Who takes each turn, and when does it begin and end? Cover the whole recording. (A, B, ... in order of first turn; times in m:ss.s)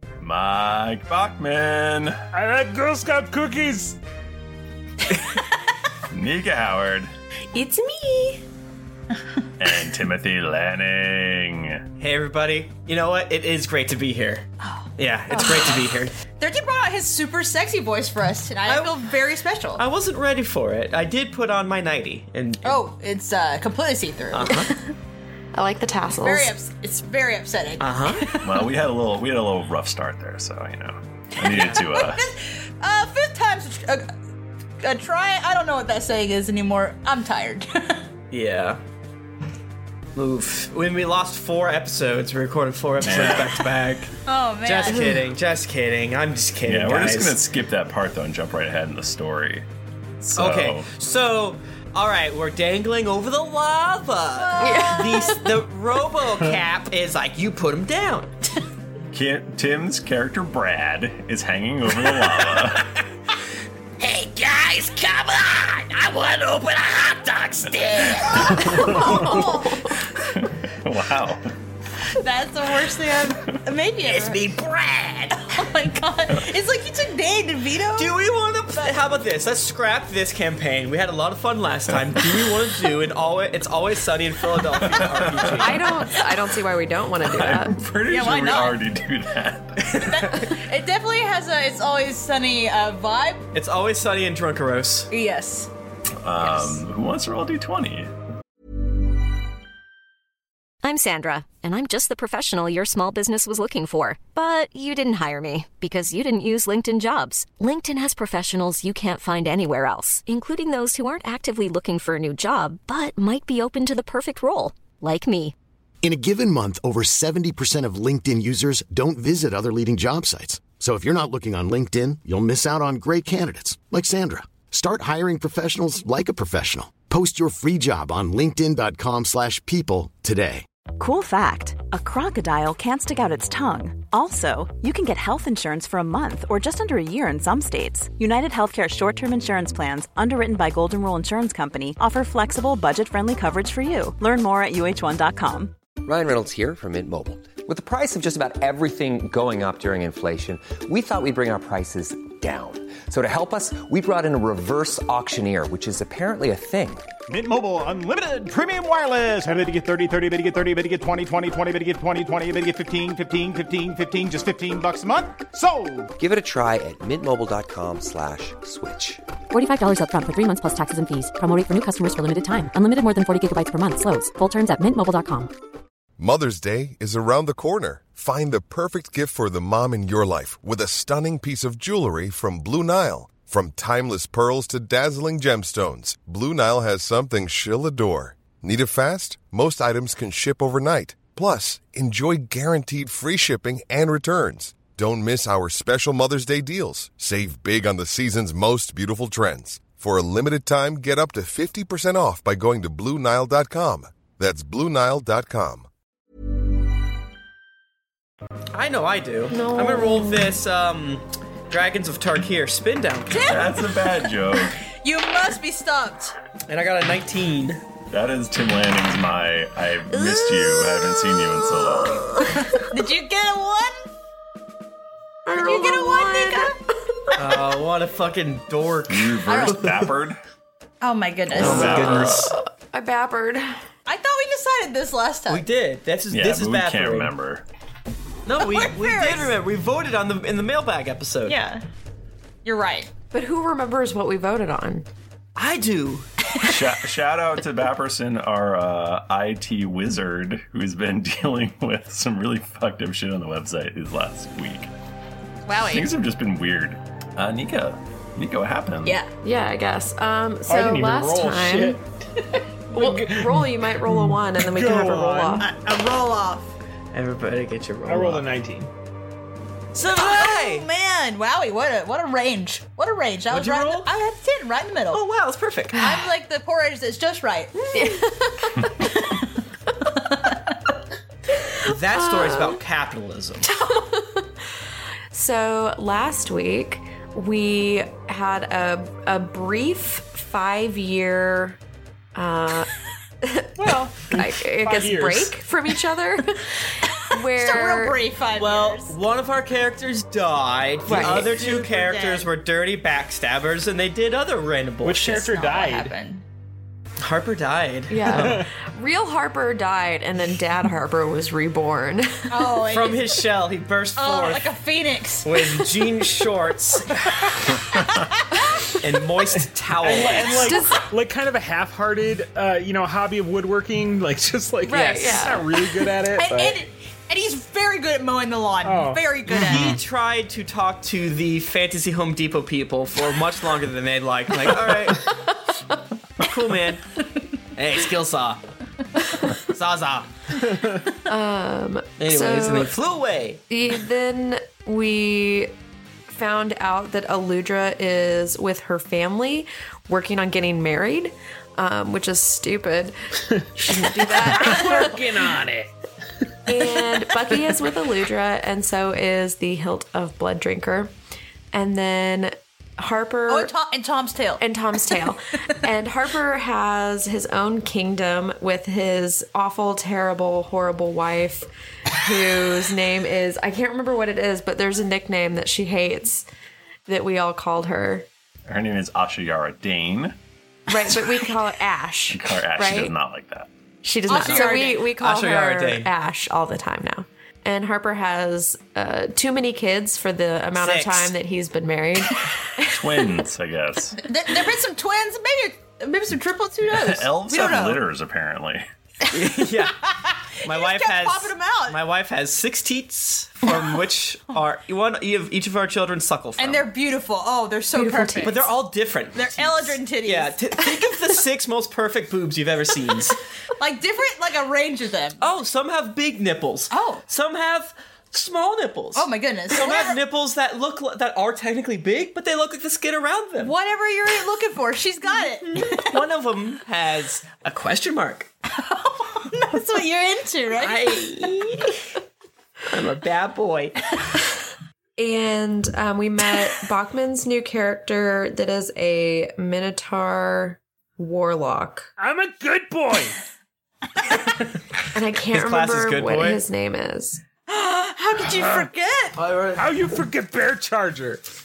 0:00.2-0:02.2 A
0:02.3-0:04.0 B
0:06.1-0:07.1 A
0:09.6-0:11.8 A
0:12.0-0:14.4 C
0:14.6-0:19.8 D
0:15.0-0:16.1 C
0:18.6-0:19.0 C
0:19.8-0:22.8 C
0:22.6-0:24.8 D
0:24.3-0:24.7 C
0:25.5-0:26.5 E
0:26.2-0:28.6 D
0:27.8-0:28.3 C
0:28.4-0:32.2 A
0:31.4-0:34.1 D
0:34.8-0:38.0 D
0:38.3-0:38.8 C
0:40.2-0:47.4 C
0:43.0-0:43.7 A
0:44.2-0:45.2 D
0:44.9-0:45.2 E
0:46.6-0:49.6 A
0:50.2-0:50.9 A
0:50.4-0:58.3 C
0:54.3-0:55.4 D
0:54.6-0:55.4 E
0:59.1-1:02.9 A
1:04.0-1:07.6 C
1:07.8-1:09.8 D
1:08.2-1:09.6 A
1:08.8-1:09.9 E
1:10.2-1:11.5 A
1:12.1-1:14.6 D
1:14.1-1:15.2 C
1:15.3-1:18.2 D
1:18.0-1:25.9 C
1:24.9-1:25.6 A
1:25.6-1:27.8 E
1:27.2-1:30.2 A
1:28.0-1:28.8 D
1:29.9-1:33.4 D
1:33.5-1:35.1 C
1:35.1-1:35.7 D
1:36.2-1:38.1 A
1:40.8-1:55.5 F
1:56.0-2:10.6 G
2:11.0-2:25.7 H
2:26.0-2:37.0 I
2:37.3-2:46.1 J
2:46.2-2:49.2 I
2:49.5-2:55.5 K
2:56.2-3:25.9 L
3:28.7-3:33.6 C
3:29.5-3:30.5 E
3:33.3-3:34.3 D
3:33.4-3:34.8 A
3:34.8-3:36.3 D
3:36.7-3:37.8 C
3:38.1-3:42.3 A
3:40.1-3:42.6 E
3:42.9-3:44.0 D
3:45.4-3:47.6 E
3:45.5-3:46.7 D
3:47.4-3:50.0 C
3:49.1-3:50.4 A
3:49.4-3:49.9 D
3:51.0-3:52.4 D
3:51.5-3:52.5 A
3:51.5-3:52.5 C
3:52.3-3:53.8 E
3:54.0-3:55.6 D
3:55.5-3:57.3 C
3:56.3-3:57.6 A
3:58.4-4:01.6 C
3:58.6-3:59.6 D
4:01.4-4:01.8 D
4:02.6-4:03.1 D
4:03.3-4:05.0 E
4:05.6-4:06.3 C
4:06.6-4:14.9 A
4:15.6-4:16.1 D
4:15.8-4:19.2 A
4:19.0-4:19.3 D
4:19.4-4:22.0 E
4:20.6-4:22.0 B
4:22.9-4:25.7 B
4:22.9-4:25.7 E
4:25.6-4:26.7 D
4:27.1-4:28.4 C
4:28.0-4:28.9 B
4:30.0-4:35.3 D
4:30.0-4:30.9 C
4:33.5-4:34.1 C
4:35.1-4:36.1 C
4:35.9-4:38.3 D
4:37.9-4:38.9 E
4:38.8-4:39.5 D
4:40.1-4:40.6 D
4:41.8-4:43.7 C
4:41.9-4:42.8 E
4:43.6-4:44.5 E
4:45.3-4:51.8 E
4:52.3-4:52.9 E
4:53.4-4:58.2 E
4:53.8-4:55.5 B
4:57.5-4:59.1 D
4:58.6-5:05.5 C
5:01.0-5:01.5 E
5:01.1-5:02.5 D
5:05.0-5:06.1 B
5:05.4-5:06.4 D
5:07.2-5:08.6 C
5:08.1-5:12.8 E
5:08.3-5:08.7 B
5:12.5-5:13.4 D
5:12.9-5:14.6 C
5:14.2-5:15.6 D
5:15.4-5:17.1 C
5:18.0-5:18.4 D
5:19.0-5:20.8 C
5:20.0-5:26.8 B
5:20.3-5:21.0 E
5:24.8-5:25.8 E
5:25.0-5:25.3 C
5:26.3-5:30.0 D
5:28.8-5:29.9 B
5:29.5-5:35.3 C
5:36.4-5:37.0 C
5:37.8-5:38.6 C
5:39.5-5:40.8 C
5:41.2-5:42.9 E
5:42.2-5:43.6 C
5:43.7-5:45.7 E
5:46.3-5:55.5 E
5:54.0-5:55.9 B
5:56.6-6:01.1 E
6:01.7-6:03.7 E
6:03.5-6:04.6 D
6:04.6-6:16.4 E
6:17.1-6:18.3 E
6:18.6-6:20.4 A
6:20.9-6:23.1 E
6:22.3-6:23.7 A
6:24.0-6:33.3 E
6:24.3-6:25.0 D
6:24.3-6:26.1 C
6:30.8-6:31.3 C
6:32.9-6:34.2 A
6:34.2-6:38.0 D
6:36.8-6:38.9 A
6:39.3-6:39.9 C
6:40.1-6:42.1 D
6:40.6-6:46.9 C
6:46.6-6:48.7 D
6:47.9-6:48.7 E
6:48.4-6:53.4 C
6:49.3-6:51.3 D
6:53.8-6:55.4 D
6:55.4-7:03.7 C
6:56.9-6:57.2 D
6:59.1-7:00.2 D
7:03.6-7:06.2 D
7:05.7-7:08.5 C
7:08.7-7:11.5 D
7:10.7-7:11.9 C
7:12.9-7:13.9 C
7:15.2-7:22.1 E
7:22.2-7:23.4 B
7:25.1-7:27.4 E
7:25.4-7:26.6 C
7:27.7-7:29.4 D
7:28.5-7:28.9 B
7:29.6-7:31.4 B